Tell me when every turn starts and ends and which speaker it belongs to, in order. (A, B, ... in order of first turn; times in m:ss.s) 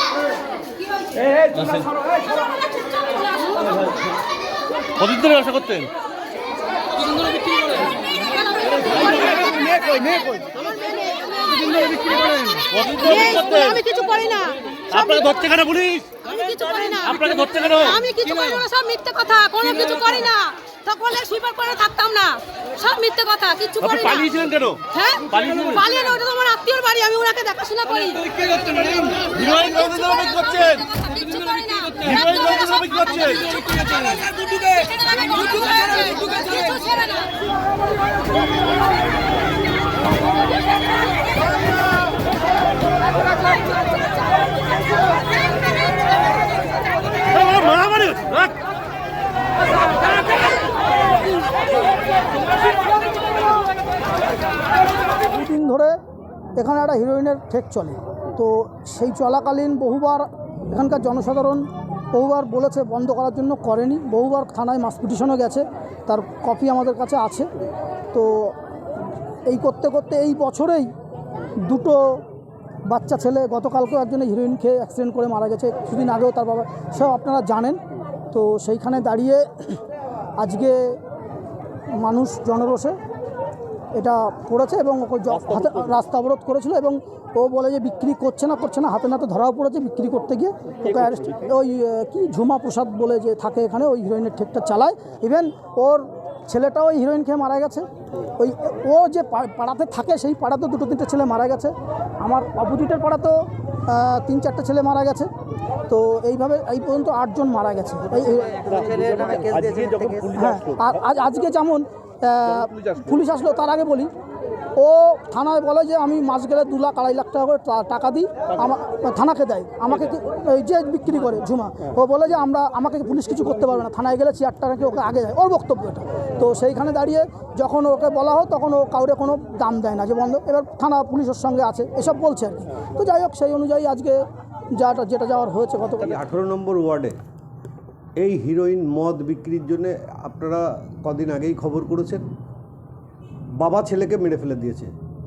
0:01.5-0:02.0 A
0:05.0-0:05.9 A
0:08.9-0:15.4 B
0:12.7-0:13.8 A
0:14.9-0:16.1 A
0:16.2-0:24.3 B
0:17.2-0:17.9 A
0:24.1-0:24.8 A
0:24.9-0:37.2 B
0:25.3-0:25.8 A
0:29.4-0:30.8 A
0:32.0-0:33.4 A
0:47.4-0:48.5 A
0:55.2-0:56.0 C
0:56.6-1:07.5 C
1:08.1-1:08.6 C
1:09.4-1:10.9 C
1:11.6-1:12.2 C
1:12.9-1:17.8 C
1:18.3-1:19.8 C
1:20.4-1:21.0 C
1:21.9-1:23.0 C
1:23.9-1:45.3 C
1:45.9-1:49.4 C
1:48.7-1:50.3 D
1:50.3-1:54.1 C
1:54.8-2:14.2 C
2:14.7-2:16.1 C
2:16.0-2:17.2 D
2:18.2-2:22.2 D
2:23.6-2:24.9 D